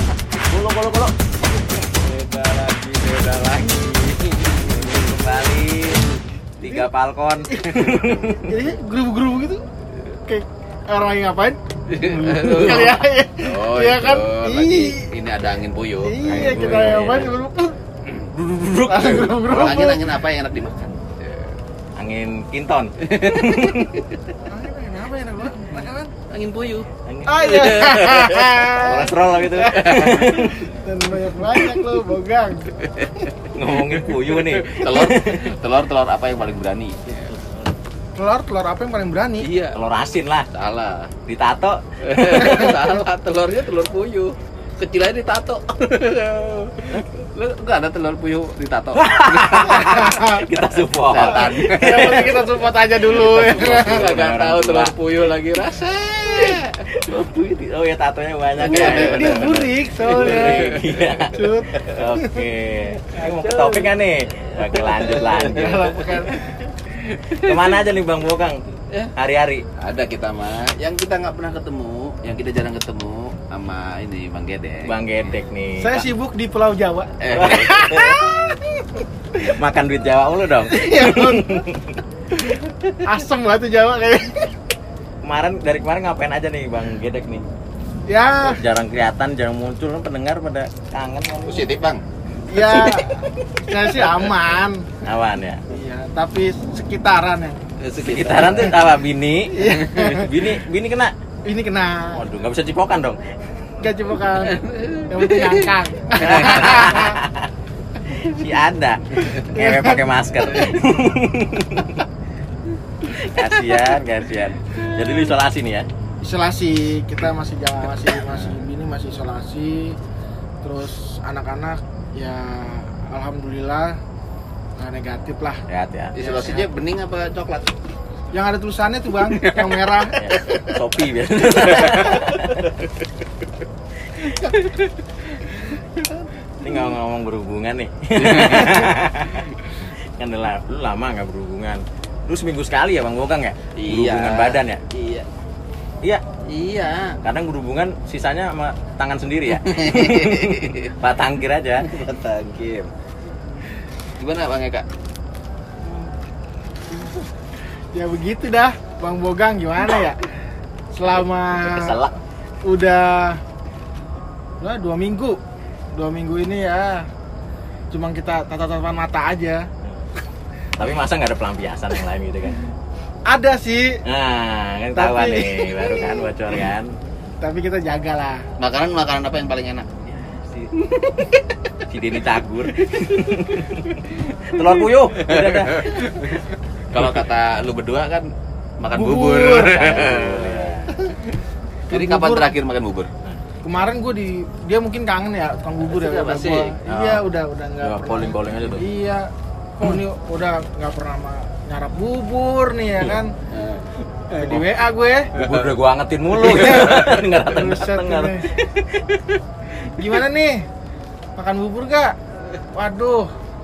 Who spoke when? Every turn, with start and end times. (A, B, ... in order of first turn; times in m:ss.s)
0:00.4-0:01.1 A
0:01.9-0:05.1 B
0:04.6-0:06.1 A
0:06.6-0:08.7 A
0:07.5-0:09.6 C
0:10.3-0:15.1 C
0:11.9-0:17.0 B
0:12.5-0:13.0 A
0:16.0-0:17.8 C
0:16.2-0:17.4 A
0:18.3-0:19.9 A
0:18.9-0:20.1 C
0:19.4-0:21.6 B
0:22.0-0:24.0 A
0:23.0-0:24.2 B
0:24.5-0:26.1 C
0:26.3-0:26.9 B
0:27.1-0:30.7 A
0:27.3-0:32.9 C
0:27.5-0:28.3 B
0:29.7-0:30.3 B
0:32.8-0:37.3 B
0:33.5-0:35.5 A
0:37.2-0:37.7 A
0:38.2-0:39.5 C
0:39.4-0:39.8 B
0:39.7-0:40.5 A
0:40.5-0:41.1 B
0:41.3-0:42.6 A
0:42.0-0:50.2 B
0:49.0-0:52.4 A
0:49.8-0:50.4 C
0:51.0-0:52.4 B
0:51.3-0:53.8 C
0:53.1-0:55.0 A
0:53.2-0:56.8 B
0:56.9-1:06.2 A
0:58.6-0:59.6 B
0:58.6-1:02.4 C
1:00.1-1:01.2 B
1:03.1-1:07.8 B
1:05.5-1:06.6 C
1:07.3-1:09.6 A
1:09.8-1:15.3 B
1:14.8-1:16.1 A
1:15.8-1:19.0 C
1:17.2-1:17.9 B
1:17.3-1:18.3 A
1:19.4-1:22.0 A
1:20.7-1:21.6 C
1:22.5-1:24.5 C
1:25.2-1:27.5 A
1:28.1-1:28.6 C
1:28.4-1:31.7 A
1:31.4-1:32.0 B
1:32.5-1:34.9 C
1:32.5-1:34.3 A
1:35.0-1:35.6 A
1:35.7-1:37.6 C
1:37.8-1:38.8 B
1:38.0-1:41.1 A
1:39.5-1:40.3 C
1:39.6-1:40.2 B
1:41.5-1:42.2 C
1:42.1-1:43.2 A
1:43.8-1:47.2 C
1:44.4-1:45.7 B
1:46.2-1:47.5 A
1:48.0-1:52.0 A
1:49.5-1:50.0 C
1:53.1-1:55.9 A
1:56.2-2:00.0 C
2:00.6-2:04.0 C
2:04.8-2:05.6 C
2:05.7-2:06.5 A
2:06.2-2:07.7 B
2:06.2-2:06.6 C
2:08.3-2:10.2 C
2:09.3-2:10.4 B
2:10.2-2:12.7 A
2:11.7-2:12.2 B
2:16.6-2:24.8 A
2:18.2-2:18.8 B
2:23.8-2:25.3 B
2:26.4-2:27.2 B
2:27.2-2:32.0 A
2:29.6-2:30.9 B
2:31.8-2:32.9 B
2:34.2-2:34.8 B
2:37.9-2:40.2 C
2:40.9-2:42.0 C
2:41.6-2:42.2 A
2:42.7-2:43.4 C
2:44.6-2:45.4 C
2:45.9-2:47.1 C
2:47.9-2:49.7 C
2:50.8-2:52.6 A
2:53.3-2:54.0 C
2:54.1-2:56.9 A
2:55.0-2:56.2 C
2:57.4-2:58.4 C
2:58.6-2:59.9 B
3:00.1-3:00.7 A
3:00.8-3:01.5 B
3:01.9-3:06.0 A
3:02.9-3:03.5 B
3:04.6-3:08.3 B
3:08.8-3:10.8 B
3:08.9-3:10.1 C
3:09.7-3:11.0 A
3:11.9-3:13.1 B
3:11.9-3:12.5 C
3:13.6-3:23.3 C
3:15.8-3:17.0 B
3:16.9-3:17.2 A
3:17.8-3:18.9 A
3:23.5-3:23.8 B
3:24.3-3:25.3 C
3:25.4-3:29.4 A
3:25.4-3:25.7 B
3:26.4-3:28.5 C
3:29.9-3:30.7 C
3:31.4-3:32.2 C
3:32.7-3:33.3 C